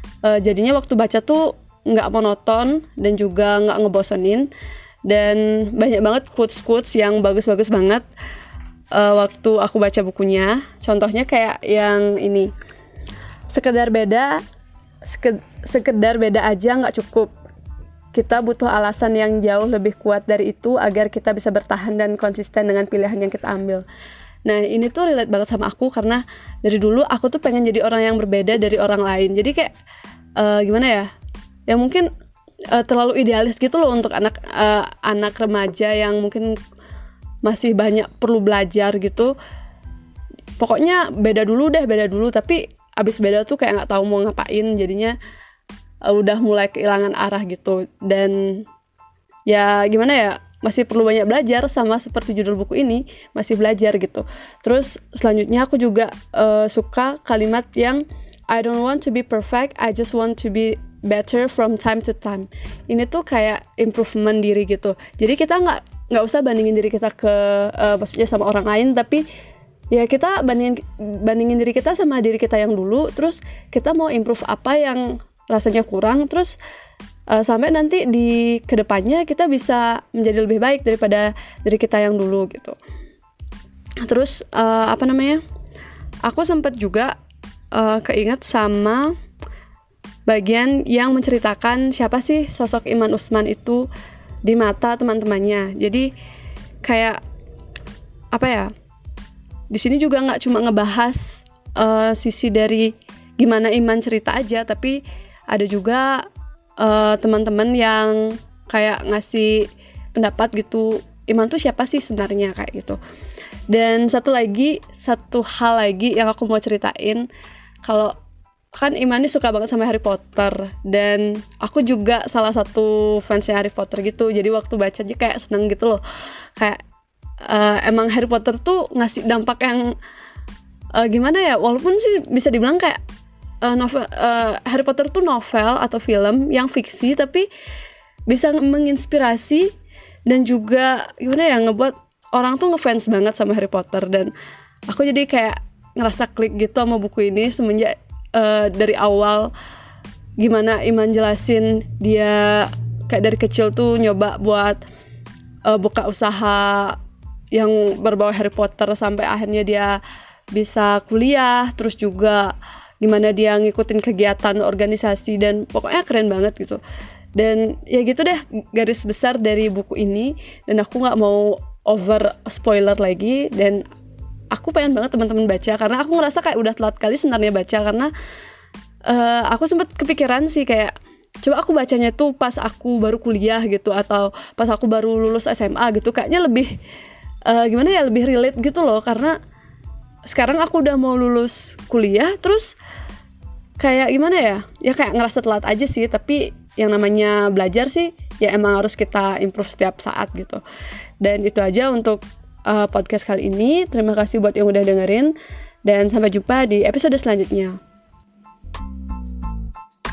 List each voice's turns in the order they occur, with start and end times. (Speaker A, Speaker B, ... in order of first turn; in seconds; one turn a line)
Speaker A: 0.2-4.5
Speaker A: 5.1-8.0
Speaker A: 8.9-12.5
Speaker A: 13.5-14.4
Speaker A: 15.1-17.3
Speaker A: 18.1-23.9
Speaker A: 24.4-29.7
Speaker A: 30.4-31.1
Speaker A: 31.7-32.1
Speaker A: 32.7-36.5
Speaker A: 37.4-39.3
Speaker A: 40.6-45.1
Speaker A: 46.1-48.6
Speaker A: 49.5-69.2
Speaker A: 69.9-76.5
Speaker A: 77.3-82.8
Speaker A: 84.0-85.4
Speaker A: 86.2-87.2
Speaker A: 87.7-89.1
Speaker A: 90.3-93.8
Speaker A: 94.5-96.1
Speaker A: 96.8-97.2
Speaker A: 98.3-98.7
Speaker A: 99.7-106.3
Speaker A: 106.8-113.0
Speaker A: 113.7-117.3
Speaker A: 117.8-118.1
Speaker A: 118.7-126.0
Speaker A: 127.4-129.9
Speaker A: 130.9-133.0
Speaker A: 133.6-137.5
Speaker A: 138.3-139.7
Speaker A: 140.3-144.3
Speaker A: 144.9-149.5
Speaker A: 150.4-154.8
Speaker A: 155.7-157.0
Speaker A: 157.5-160.0
Speaker A: 160.6-166.8
Speaker A: 167.4-173.8
Speaker A: 174.5-178.1
Speaker A: 179.1-186.7
Speaker A: 187.5-189.4
Speaker A: 190.3-192.7
Speaker A: 193.8-200.6
Speaker A: 201.2-205.3
Speaker A: 205.9-207.8